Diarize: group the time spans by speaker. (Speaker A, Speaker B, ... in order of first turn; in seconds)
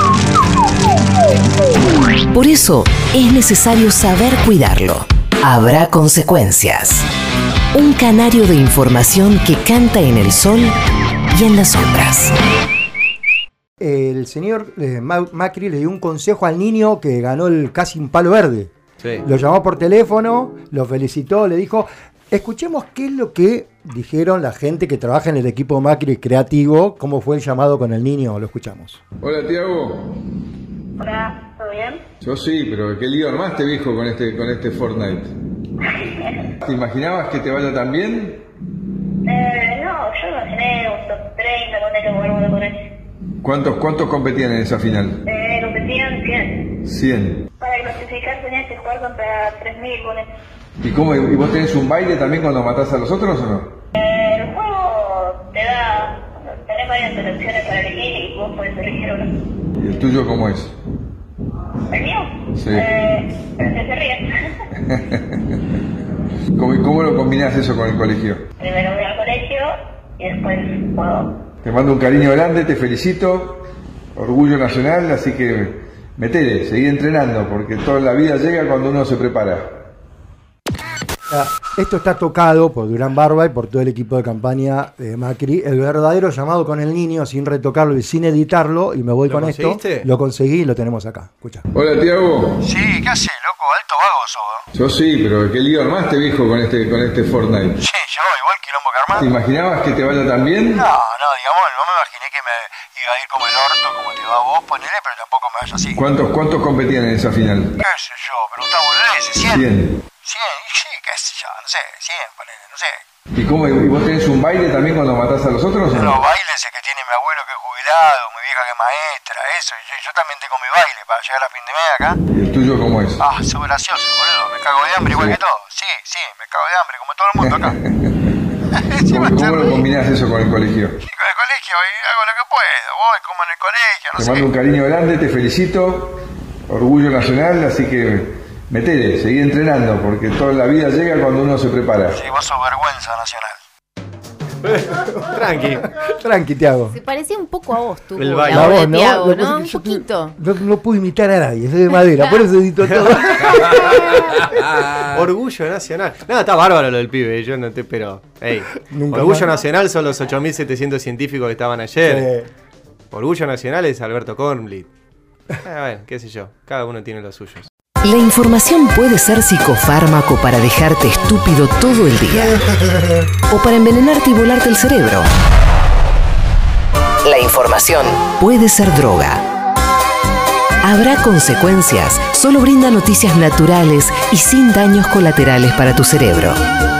Speaker A: 2.3-7.1, 7.7-10.7, 11.3-12.3, 168.0-172.6, 173.5-175.3, 177.2-179.4, 180.8-186.6
Speaker B: 13.8-29.0, 81.3-91.6, 146.1-147.0, 148.5-154.6, 158.9-159.6, 162.1-162.5
Speaker C: 29.2-30.2, 32.2-35.3, 36.6-38.4, 43.4-45.2, 46.9-47.5, 50.8-53.7, 59.8-60.8, 62.5-62.9, 64.8-65.6, 66.5-68.4, 71.6-79.8, 91.7-92.7, 94.7-97.8, 99.2-100.9, 106.0-107.8, 109.4-110.0, 113.4-116.2, 122.3-123.3, 125.0-125.4, 127.4-128.2, 129.1-131.0, 134.2-142.2
Speaker D: 31.0-32.0, 35.9-36.4, 39.3-42.9, 45.3-46.7, 47.6-50.3, 54.0-59.3, 61.9-64.6, 68.6-71.4
Speaker E: 89.3-90.1, 144.6-145.9, 148.2-148.8, 152.9-162.3, 163.1-164.9, 165.6-167.7
Speaker F: 92.8-94.6, 98.0-99.1, 101.0-106.0, 107.9-109.5, 110.3-111.2, 111.8-112.3, 116.0-122.2, 123.3-127.4, 128.9-129.8, 131.1-134.4, 142.3-143.5
Speaker G: 146.9-150.3